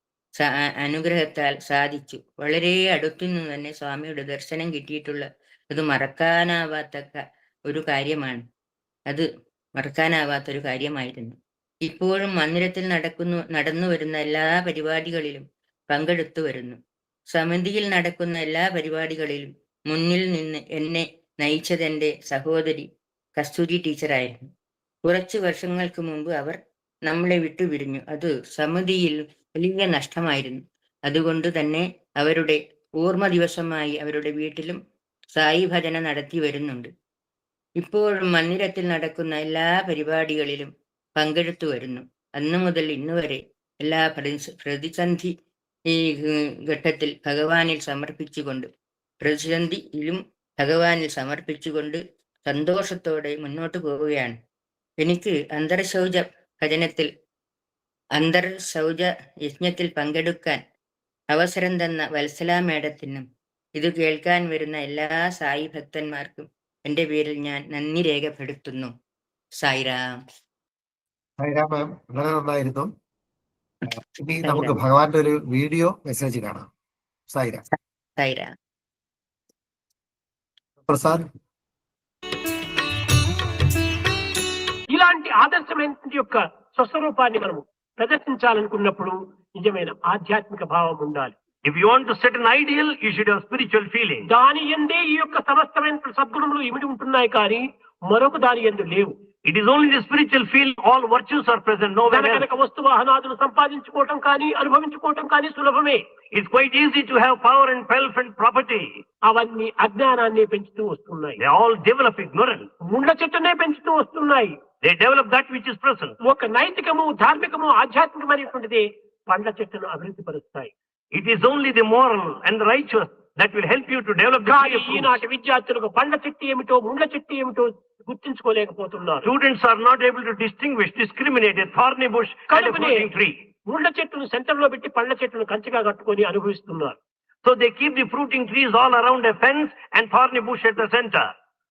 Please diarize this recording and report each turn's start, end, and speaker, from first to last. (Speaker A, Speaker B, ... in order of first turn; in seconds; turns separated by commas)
Speaker A: 0.4-8.4, Speaker A: 9.1-16.8, Speaker A: 17.3-24.5, Speaker A: 25.1-34.8, Speaker A: 35.4-36.9, Speaker A: 37.8-45.3, Speaker A: 45.9-48.7, Speaker A: 49.2-54.4, Speaker A: 55.0-57.1, Speaker A: 58.2-60.6, Speaker A: 61.3-63.2, Speaker A: 63.8-68.9, Speaker A: 69.6-70.2, Speaker B: 71.4-72.9, Speaker B: 73.9-76.7, Speaker A: 74.4-74.8, Speaker B: 77.3-77.6, Speaker A: 78.2-78.5, Speaker B: 80.9-81.3, Speaker C: 84.9-91.3, Speaker D: 91.7-94.3, Speaker C: 94.3-99.2, Speaker D: 99.5-102.5, Speaker C: 102.1-106.0, Speaker D: 106.3-108.9, Speaker C: 109.3-111.4, Speaker D: 111.4-112.7, Speaker C: 112.8-114.6, Speaker D: 114.8-116.2, Speaker C: 116.2-120.7, Speaker D: 121.1-125.2, Speaker C: 124.5-129.3, Speaker D: 129.2-133.4, Speaker C: 132.5-133.1, Speaker C: 133.7-137.0, Speaker D: 137.4-141.3